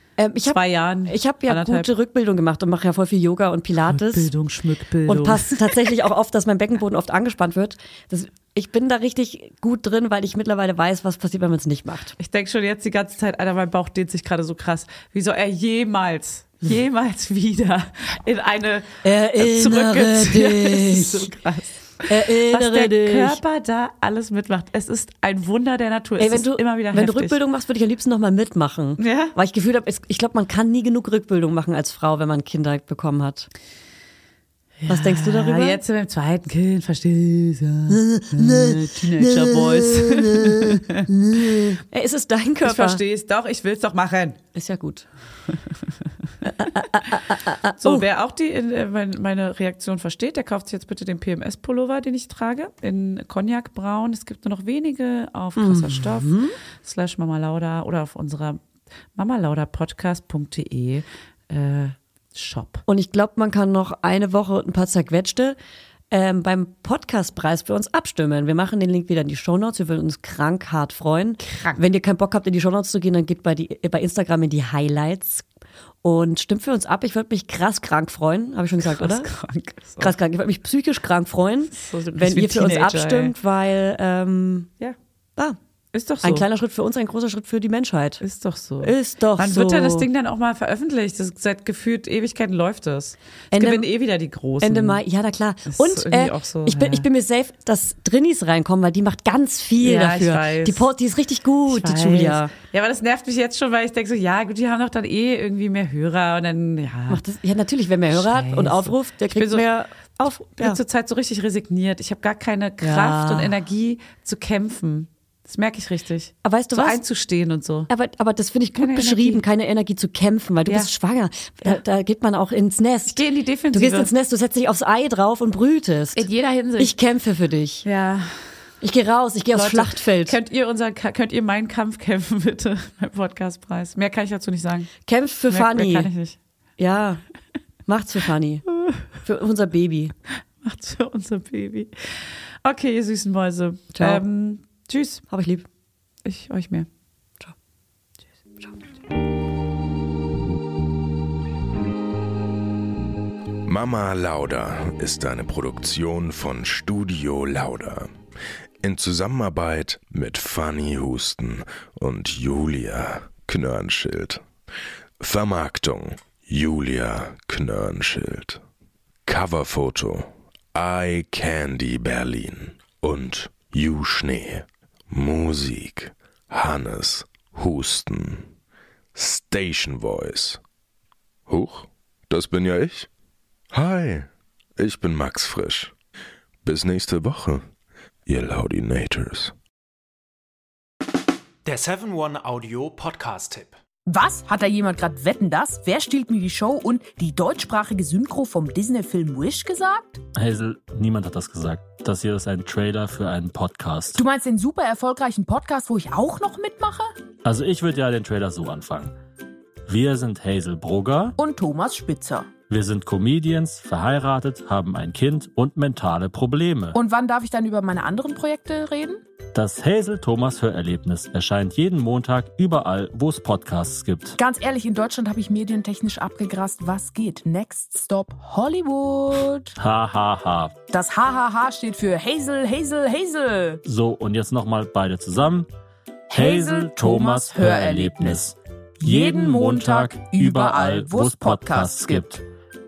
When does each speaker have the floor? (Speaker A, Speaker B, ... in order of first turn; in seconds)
Speaker A: 0.2-4.3, 5.0-12.2, 19.0-21.3, 22.1-23.4, 26.2-33.5, 34.9-35.8, 37.9-43.0, 44.5-45.0, 46.4-48.0, 55.5-56.5, 62.9-65.5, 66.1-75.4, 76.0-79.3, 80.0-84.7, 86.2-88.2, 88.8-90.0, 93.5-93.9, 94.6-102.5, 107.1-110.8, 112.8-113.5, 116.4-117.0, 117.9-123.2, 123.7-126.2, 126.8-127.8, 128.8-130.4, 135.1-136.1, 136.8-137.2, 137.9-138.6, 139.2-140.1, 143.9-144.2, 145.3-145.7
Speaker B: 0.5-1.9, 3.8-5.8, 12.2-27.4, 29.0-29.4, 34.8-41.7, 42.6-44.4, 45.5-45.9, 47.8-58.6, 59.1-62.8, 71.4-71.8, 78.8-80.1, 81.7-83.3, 85.9-86.4, 88.2-95.0, 95.7-97.0, 99.8-100.8, 101.7-107.2, 108.1-109.6, 110.6-117.9, 118.7-119.4, 123.1-124.1, 126.1-126.9, 127.8-128.4, 129.5-134.9, 135.5-136.4, 138.7-139.0, 140.6-145.2, 146.2-146.9
Speaker C: 153.7-158.1, 158.8-164.4, 165.2-168.6, 169.2-178.5, 179.1-180.6, 181.5-183.1, 183.7-185.9, 186.6-187.6, 188.2-189.5
Speaker D: 191.6-193.8
Speaker E: 194.1-200.2, 204.1-207.1, 211.4-212.5, 216.9-219.2, 224.4-229.7, 230.9-233.8, 236.3-238.4, 239.0-242.3
Speaker F: 200.3-204.2, 207.4-209.1, 209.9-211.3, 212.7-217.0, 219.5-224.4, 229.8-230.7, 233.8-235.7, 236.3-242.4